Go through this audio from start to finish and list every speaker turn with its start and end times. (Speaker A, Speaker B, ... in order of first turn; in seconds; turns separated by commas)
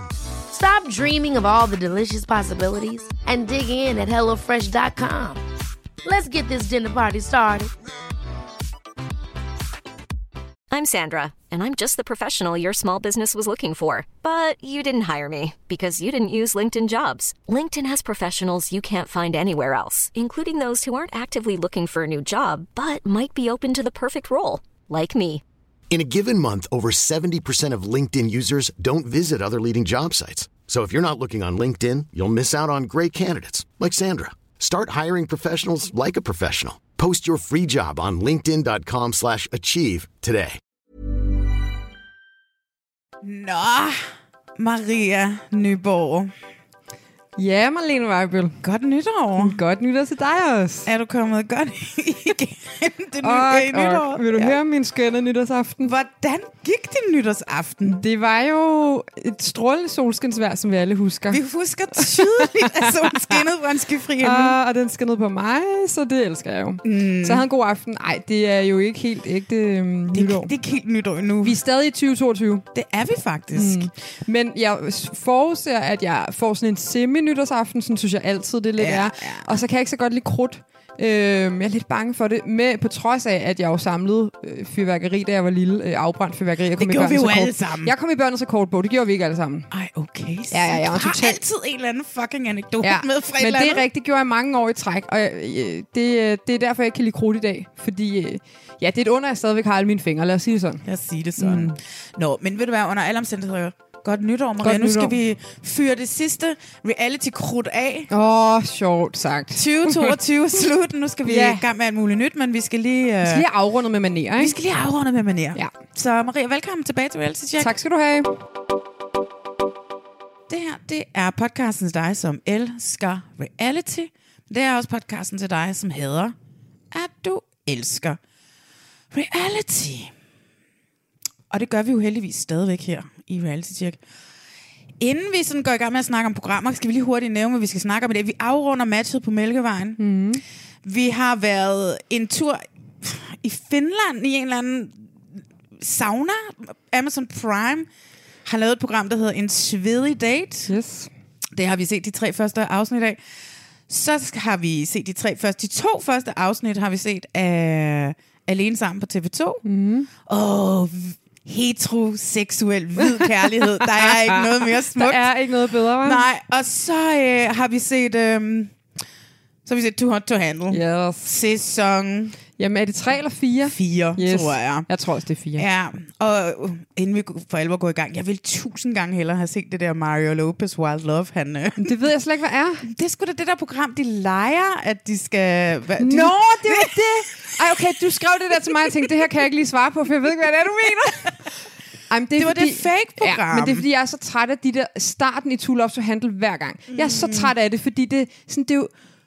Speaker A: 0.5-5.4, Speaker A: 6.0-7.7, Speaker B: 10.7-25.4, Speaker C: 25.9-40.6, Speaker D: 43.2-46.3, Speaker E: 47.4-48.6, Speaker D: 48.6-49.6, Speaker E: 49.4-50.9, Speaker D: 50.9-54.6, Speaker E: 53.2-55.9, Speaker D: 55.8-58.0, Speaker E: 57.8-61.4, Speaker D: 61.3-64.6, Speaker E: 62.0-63.2, Speaker E: 64.2-70.5, Speaker D: 66.8-67.5, Speaker D: 70.1-71.6, Speaker E: 71.4-72.7, Speaker D: 72.7-73.9, Speaker E: 73.5-89.7, Speaker D: 78.8-79.6, Speaker D: 86.8-87.9, Speaker D: 89.7-93.8, Speaker E: 90.5-91.4, Speaker E: 92.8-100.8, Speaker D: 100.8-108.1, Speaker E: 101.4-101.7, Speaker E: 104.6-105.2, Speaker E: 108.1-110.2, Speaker D: 109.6-113.5, Speaker E: 111.2-111.6, Speaker E: 113.2-114.5, Speaker D: 114.4-117.8, Speaker E: 117.6-118.3, Speaker D: 120.5-126.3, Speaker D: 126.9-128.2, Speaker D: 129.1-130.1, Speaker D: 131.5-134.0, Speaker D: 135.0-140.0, Speaker E: 140.0-140.4, Speaker D: 140.8-145.1, Speaker D: 145.8-147.9, Speaker D: 148.4-150.7, Speaker E: 150.7-151.1, Speaker D: 151.5-153.2, Speaker D: 153.9-159.6, Speaker E: 159.6-160.1, Speaker D: 160.2-165.3, Speaker E: 163.0-166.2, Speaker D: 166.0-168.8, Speaker D: 169.7-172.4, Speaker E: 170.7-171.3, Speaker E: 172.6-175.7, Speaker D: 173.7-174.9, Speaker D: 175.6-181.9, Speaker E: 181.8-182.8, Speaker D: 182.8-187.0, Speaker E: 186.0-191.4, Speaker E: 192.1-198.9, Speaker D: 192.4-193.8, Speaker D: 196.9-197.5